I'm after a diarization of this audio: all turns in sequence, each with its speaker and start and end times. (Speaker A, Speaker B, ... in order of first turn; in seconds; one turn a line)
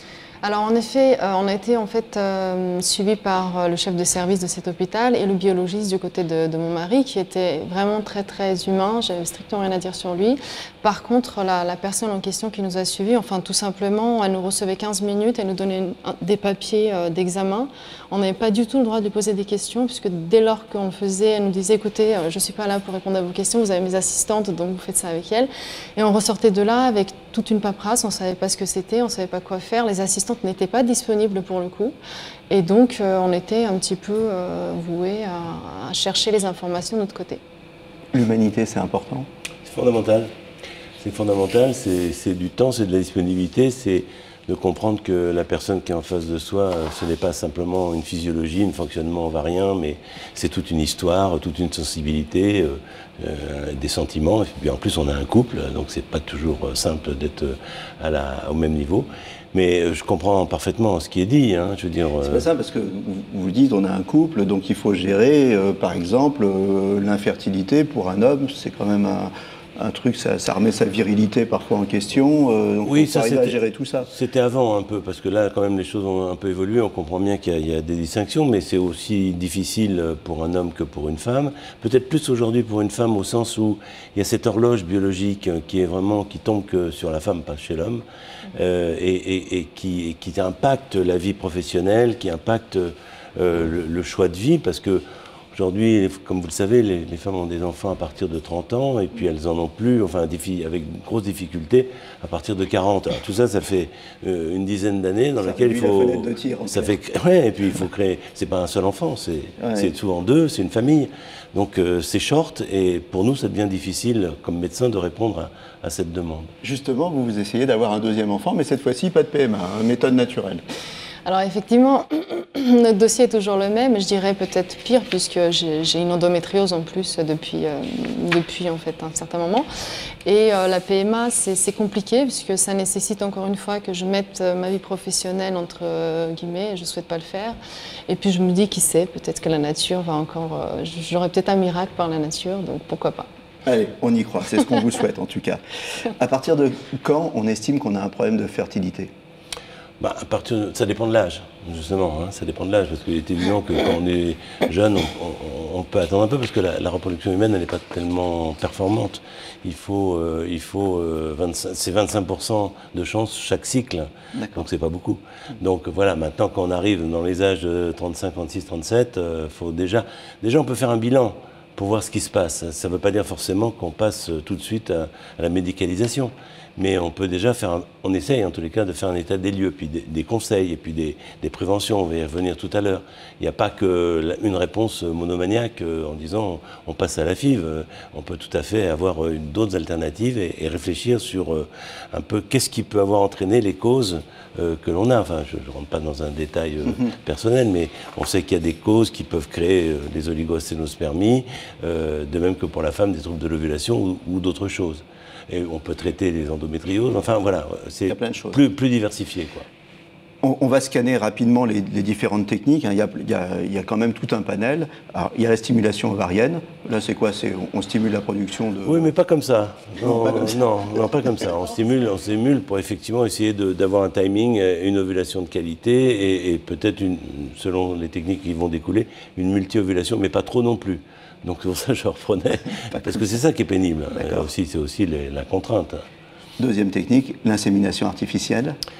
Speaker A: 0.4-31.9
Speaker A: 32.5-37.4
Speaker B: 38.1-39.3
Speaker C: 39.6-40.3
Speaker C: 41.0-62.5
Speaker B: 62.2-74.1
Speaker C: 72.8-116.5
Speaker B: 105.4-106.9
Speaker B: 109.6-109.9
Speaker B: 116.6-120.6
Speaker A: 121.2-129.7
Speaker A: 130.2-137.6
Speaker A: 138.1-143.3
Speaker B: 143.6-149.1
Speaker C: 150.0-209.7
Speaker B: 164.3-164.7
Speaker B: 208.1-208.6
Speaker B: 210.4-219.1
Speaker C: 218.8-236.0
Speaker B: 220.0-220.6
Speaker B: 234.2-234.4
Speaker B: 236.6-238.8